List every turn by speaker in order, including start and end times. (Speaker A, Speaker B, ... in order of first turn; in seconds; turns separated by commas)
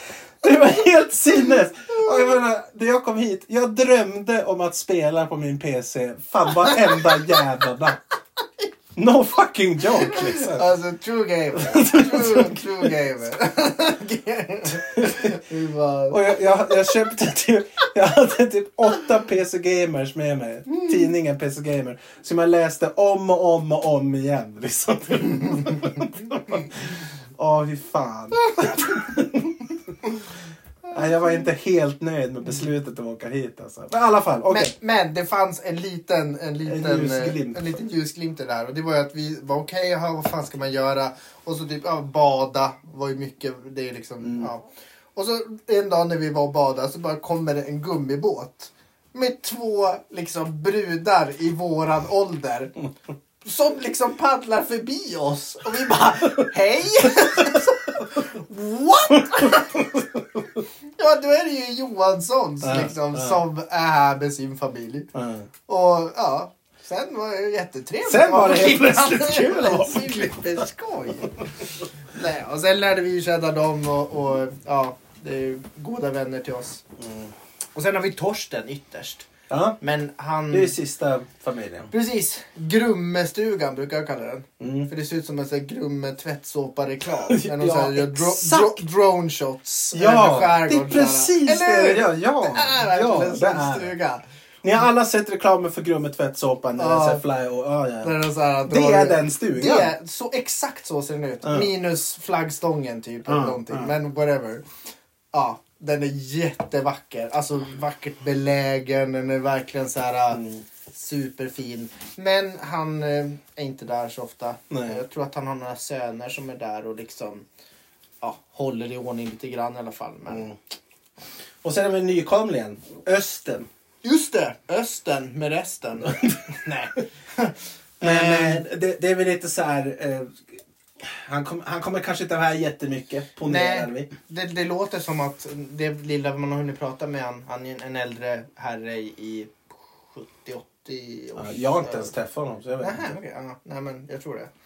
Speaker A: 0.4-8.0, Speaker B: 6.6-7.1, Speaker A: 9.0-10.7, Speaker B: 9.9-16.9, Speaker A: 11.6-12.9, Speaker A: 14.8-15.3, Speaker A: 16.1-29.8, Speaker A: 30.9-34.7, Speaker B: 34.5-52.7, Speaker A: 36.6-37.7, Speaker A: 44.2-44.5, Speaker B: 53.4-59.9, Speaker A: 59.1-60.4, Speaker B: 61.0-65.1, Speaker A: 62.6-63.4, Speaker A: 65.1-65.5, Speaker B: 65.7-71.5, Speaker A: 68.0-70.5, Speaker B: 72.1-76.8, Speaker A: 77.0-77.3, Speaker B: 77.8-79.3, Speaker A: 79.5-79.8, Speaker B: 79.8-80.8, Speaker A: 80.5-81.9, Speaker B: 81.9-94.2, Speaker A: 84.6-84.9, Speaker A: 87.3-88.8, Speaker A: 89.9-93.9, Speaker A: 94.6-99.9, Speaker B: 96.8-97.2, Speaker B: 98.0-104.7, Speaker A: 101.4-101.7, Speaker A: 103.3-103.9, Speaker B: 105.3-117.5, Speaker A: 110.3-110.6, Speaker A: 114.7-115.0, Speaker B: 118.2-120.5, Speaker A: 120.3-120.6, Speaker A: 121.6-123.7, Speaker B: 124.0-128.7, Speaker A: 126.1-126.4, Speaker A: 128.0-130.4, Speaker A: 131.0-134.1, Speaker B: 133.4-142.1, Speaker A: 141.4-143.2, Speaker B: 142.8-144.5